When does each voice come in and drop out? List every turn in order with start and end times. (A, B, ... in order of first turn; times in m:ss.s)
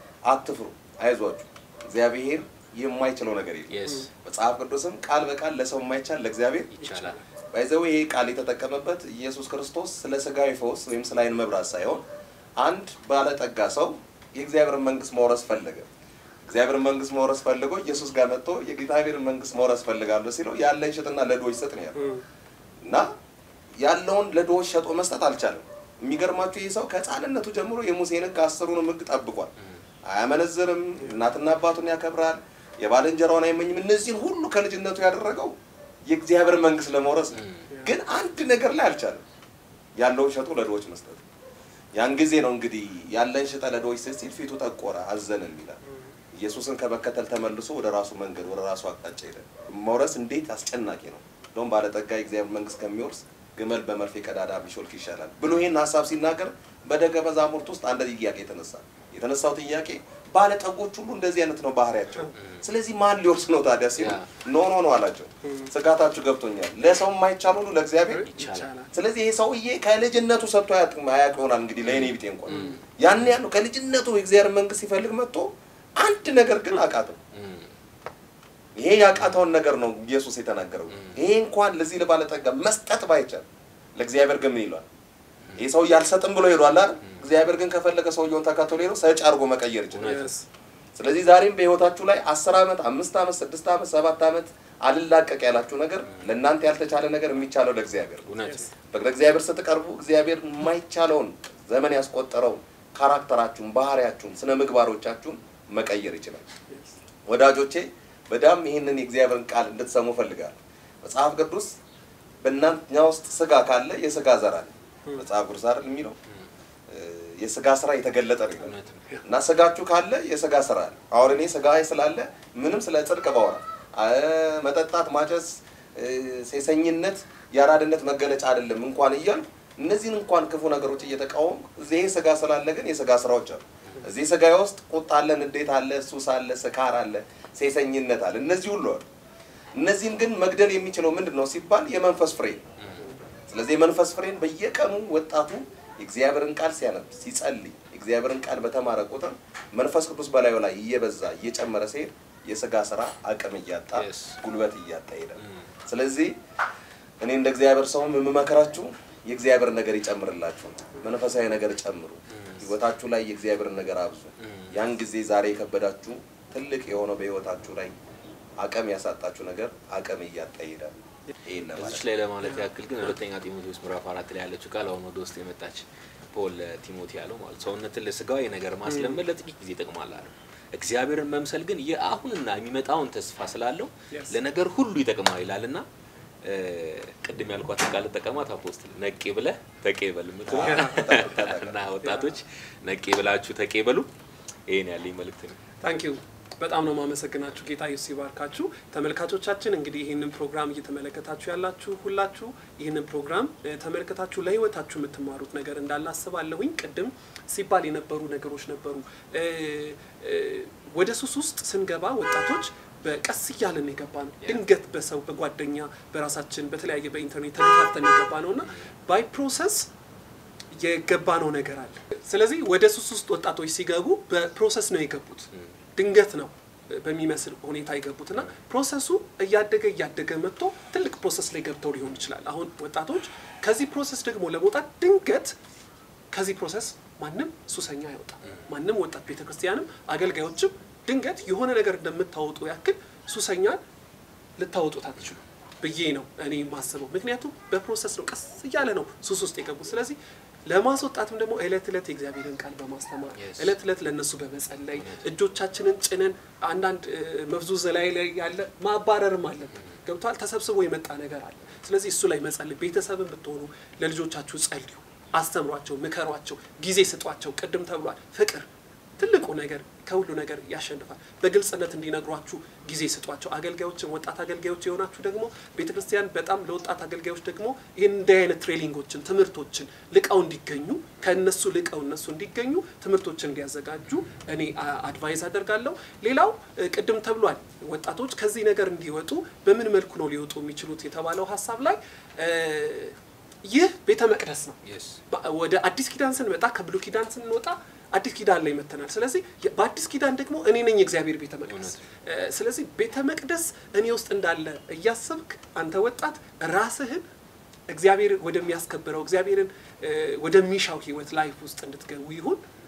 0:00.2-0:06.7 A
0:03.7-0:04.1 B
0:06.8-0:07.2 B
0:06.8-0:07.2 C
0:07.5-0:12.0 A
0:12.6-0:15.9 A
0:16.5-0:22.0 A
0:21.9-0:22.2 C
0:22.8-0:23.1 A
0:23.8-0:29.5 A
0:30.0-0:39.2 A
0:37.3-0:37.6 B
0:40.0-0:41.2 A
0:41.9-0:45.8 A
0:46.3-1:08.2 A
1:02.4-1:02.6 B
1:04.0-1:04.3 B
1:05.4-1:05.7 C
1:08.0-1:09.0 C
1:08.2-1:08.7 B
1:08.9-1:17.2 A
1:11.8-1:13.3 B
1:12.5-1:12.8 C
1:17.3-1:17.7 B
1:18.8-1:24.8 A
1:19.1-1:19.4 B
1:25.6-1:30.3 A
1:29.9-1:30.3 B
1:30.0-1:30.4 C
1:31.0-1:46.5 A
1:38.3-1:38.7 B
1:46.7-1:47.0 C
1:47.3-1:51.8 A
1:52.4-1:56.2 A
1:56.9-2:19.1 A
1:58.6-1:59.0 B
2:19.7-2:22.6 A
2:23.5-2:36.3 A
2:33.9-2:34.4 B
2:37.2-2:47.9 A
2:42.4-2:42.7 B
2:44.4-2:44.7 B
2:48.6-2:50.9 A
2:51.4-2:52.0 A
2:51.8-3:05.8 B
2:58.9-2:59.2 C
3:04.1-3:04.4 C
3:06.4-3:14.1 B
3:10.5-3:11.8 A
3:10.6-3:11.1 C
3:12.0-3:12.4 C
3:14.7-3:15.6 B
3:15.8-3:39.9 C
3:40.7-3:55.6 C
3:56.3-4:03.8 C
4:04.6-4:54.8 C
4:13.4-4:13.7 B
4:14.9-4:15.2 B
4:54.8-4:55.2 B
4:55.3-5:07.2 C
5:01.7-5:02.0 B
5:07.9-5:12.6 C